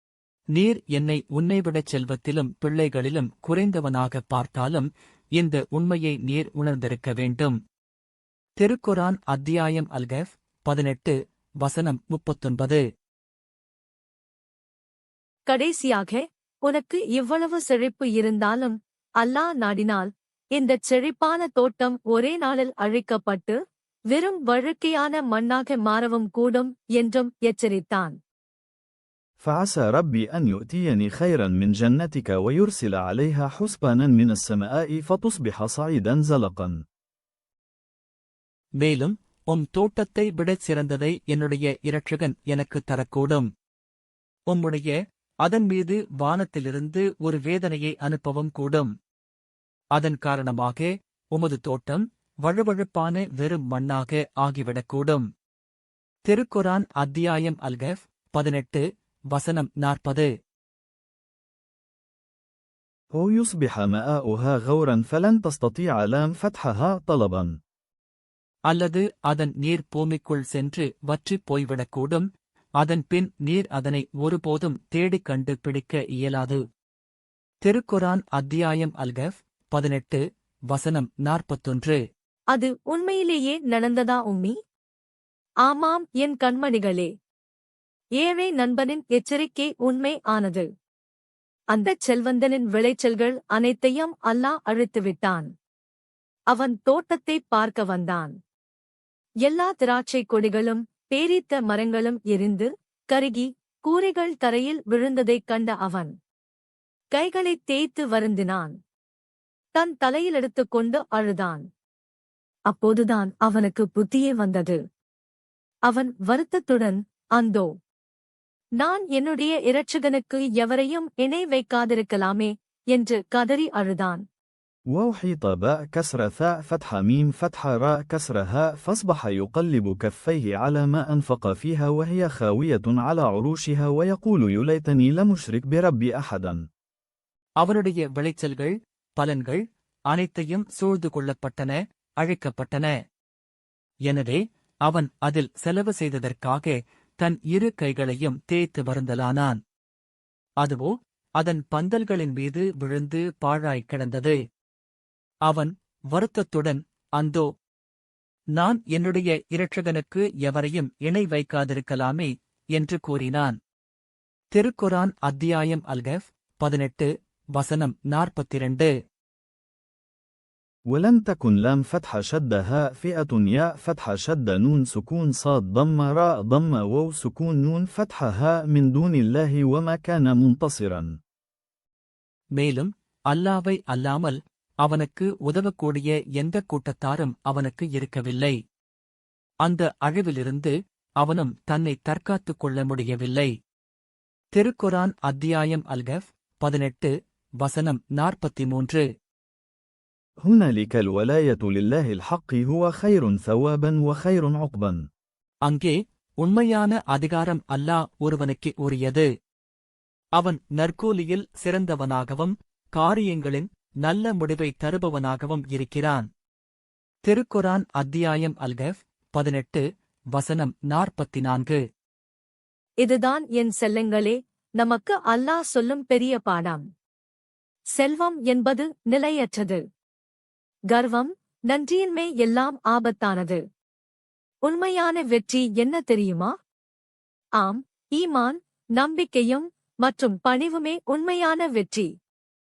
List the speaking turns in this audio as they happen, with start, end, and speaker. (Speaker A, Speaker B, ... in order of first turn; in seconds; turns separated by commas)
Speaker A: 0.6-7.6, Speaker A: 8.6-12.8, Speaker B: 15.5-23.6, Speaker B: 24.1-28.1, Speaker C: 29.4-36.8, Speaker A: 38.8-43.5, Speaker A: 44.5-48.9, Speaker A: 50.0-55.2, Speaker A: 56.3-60.3, Speaker C: 63.1-67.5, Speaker A: 68.7-72.3, Speaker A: 72.8-76.6, Speaker A: 77.7-82.0, Speaker B: 82.5-84.5, Speaker B: 85.7-87.1, Speaker B: 88.2-90.7, Speaker B: 91.7-95.5, Speaker B: 96.5-98.3, Speaker B: 99.5-106.1, Speaker B: 107.1-108.8, Speaker B: 109.8-111.7, Speaker B: 112.7-114.8, Speaker B: 115.9-117.7, Speaker B: 118.8-124.2, Speaker C: 124.9-136.6, Speaker A: 137.6-142.9, Speaker A: 144.1-149.6, Speaker A: 150.6-154.4, Speaker A: 155.5-157.5, Speaker A: 158.6-163.6, Speaker A: 164.5-168.9, Speaker C: 170.9-181.1, Speaker A: 182.6-188.6, Speaker A: 189.7-193.5, Speaker A: 194.6-199.1, Speaker C: 200.4-205.0, Speaker A: 205.7-209.3, Speaker A: 210.4-216.3, Speaker A: 217.3-219.8, Speaker A: 220.3-221.8, Speaker B: 223.0-226.8, Speaker B: 228.0-229.8, Speaker B: 230.9-233.6, Speaker B: 234.7-236.5, Speaker B: 237.6-242.1